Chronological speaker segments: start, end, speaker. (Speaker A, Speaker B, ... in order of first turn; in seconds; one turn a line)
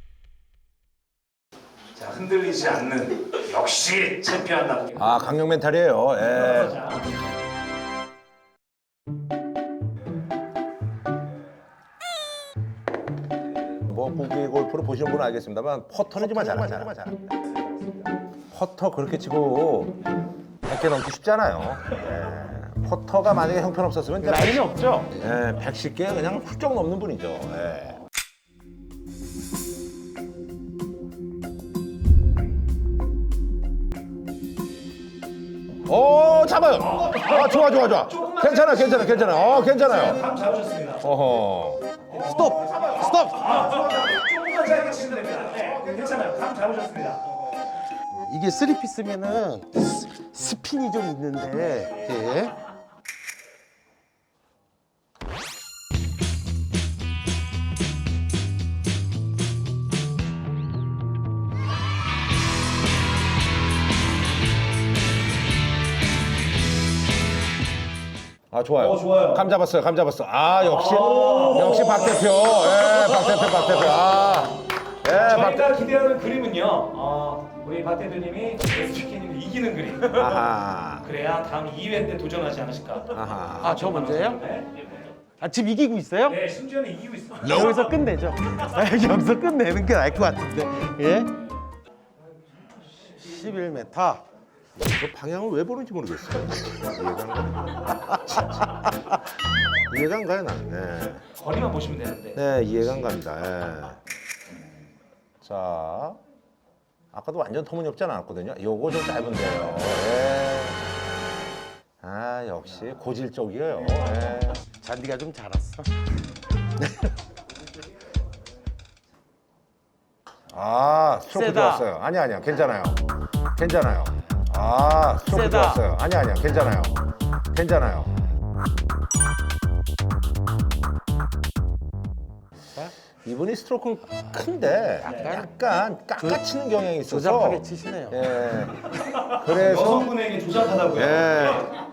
Speaker A: 1.9-5.1
Speaker B: 5.0-6.8
Speaker A: 6.2-7.1
Speaker B: 13.8-17.4
Speaker C: 16.3-16.9
Speaker B: 18.5-19.9
Speaker B: 20.6-28.0
Speaker C: 24.2-25.1
Speaker B: 35.8-40.2
Speaker A: 36.8-41.1
Speaker B: 41.0-42.0
Speaker C: 42.1-43.5
Speaker A: 42.1-47.2
Speaker C: 48.3-52.6
Speaker B: 68.5-75.7
Speaker A: 68.8-69.4
Speaker A: 70.6-72.2
Speaker A: 75.1-80.5
Speaker B: 80.1-81.1
Speaker A: 81.0-85.1
Speaker B: 83.1-83.8
Speaker C: 83.6-84.4
Speaker C: 85.4-86.4
Speaker A: 86.2-87.8
Speaker C: 87.5-91.3
Speaker C: 93.1-94.2
Speaker B: 94.8-99.0
Speaker B: 99.9-101.3
Speaker A: 101.3-102.4
Speaker B: 102.3-104.0
Speaker B: 105.4-106.2
Speaker B: 107.1-110.8
Speaker B: 112.0-114.6
Speaker C: 114.7-115.9
Speaker C: 116.8-117.1
Speaker B: 120.5-123.0
Speaker C: 121.3-121.8
Speaker B: 123.5-128.1
Speaker C: 125.3-125.8
Speaker B: 133.2-140.1
Speaker C: 135.0-135.5
Speaker A: 135.0-135.3
Speaker C: 137.1-138.2
Speaker A: 139.0-141.7
Speaker B: 140.9-141.7